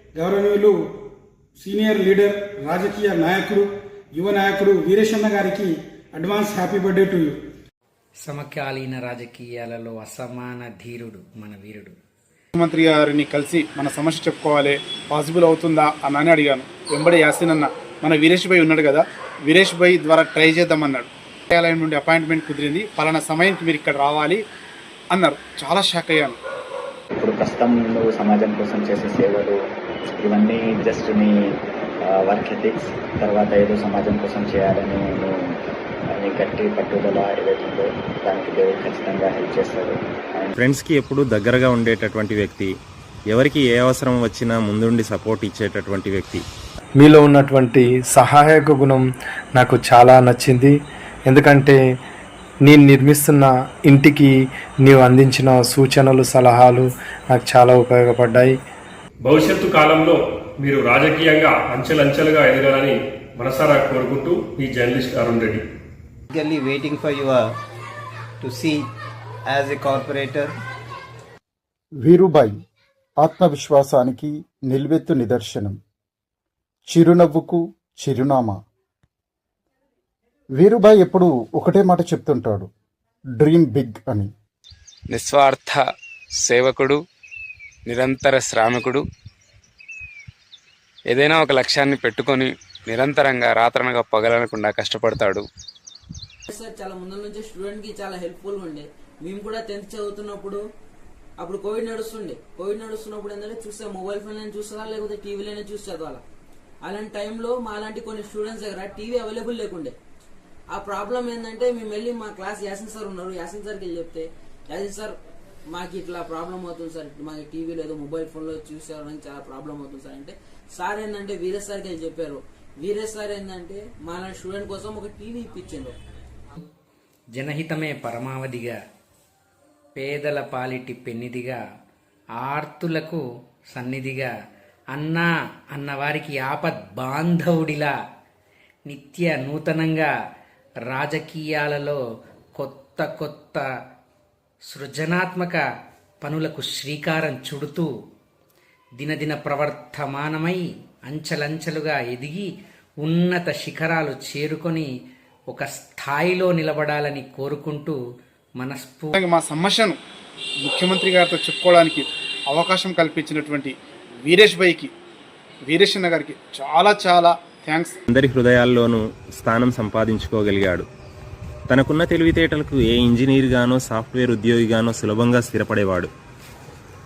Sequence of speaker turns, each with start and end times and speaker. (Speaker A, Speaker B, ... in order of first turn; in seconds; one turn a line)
Speaker A: 0.1-0.8
Speaker A: 1.6-7.4
Speaker B: 8.2-11.9
Speaker C: 12.5-24.4
Speaker C: 25.1-26.4
Speaker D: 27.1-29.6
Speaker D: 30.2-35.4
Speaker D: 36.1-40.5
Speaker E: 40.6-42.7
Speaker E: 43.3-46.4
Speaker F: 47.0-49.0
Speaker F: 49.6-50.7
Speaker F: 51.3-51.8
Speaker F: 52.7-54.3
Speaker F: 54.9-56.9
Speaker F: 57.4-58.5
Speaker G: 59.2-65.6
Speaker H: 66.3-67.6
Speaker H: 68.4-68.9
Speaker H: 69.5-70.6
Speaker I: 72.0-72.5
Speaker I: 73.2-75.8
Speaker I: 76.9-78.5
Speaker I: 80.6-82.7
Speaker I: 83.4-84.3
Speaker J: 85.1-85.8
Speaker J: 86.4-87.0
Speaker J: 87.9-89.0
Speaker J: 91.1-95.4
Speaker K: 96.5-100.6
Speaker K: 101.4-106.2
Speaker K: 106.8-110.0
Speaker K: 110.7-115.1
Speaker K: 115.7-126.0
Speaker B: 127.3-128.8
Speaker B: 129.9-131.6
Speaker B: 132.4-133.2
Speaker B: 133.7-134.3
Speaker B: 134.9-137.9
Speaker B: 138.9-140.1
Speaker B: 140.9-142.0
Speaker B: 142.6-143.6
Speaker B: 144.7-145.6
Speaker B: 146.2-147.9
Speaker B: 149.0-152.5
Speaker B: 153.0-154.9
Speaker B: 155.5-158.0
Speaker B: 158.6-159.2
Speaker C: 159.1-160.0
Speaker C: 160.6-164.9
Speaker C: 165.7-167.9
Speaker E: 168.1-170.8
Speaker E: 171.7-176.1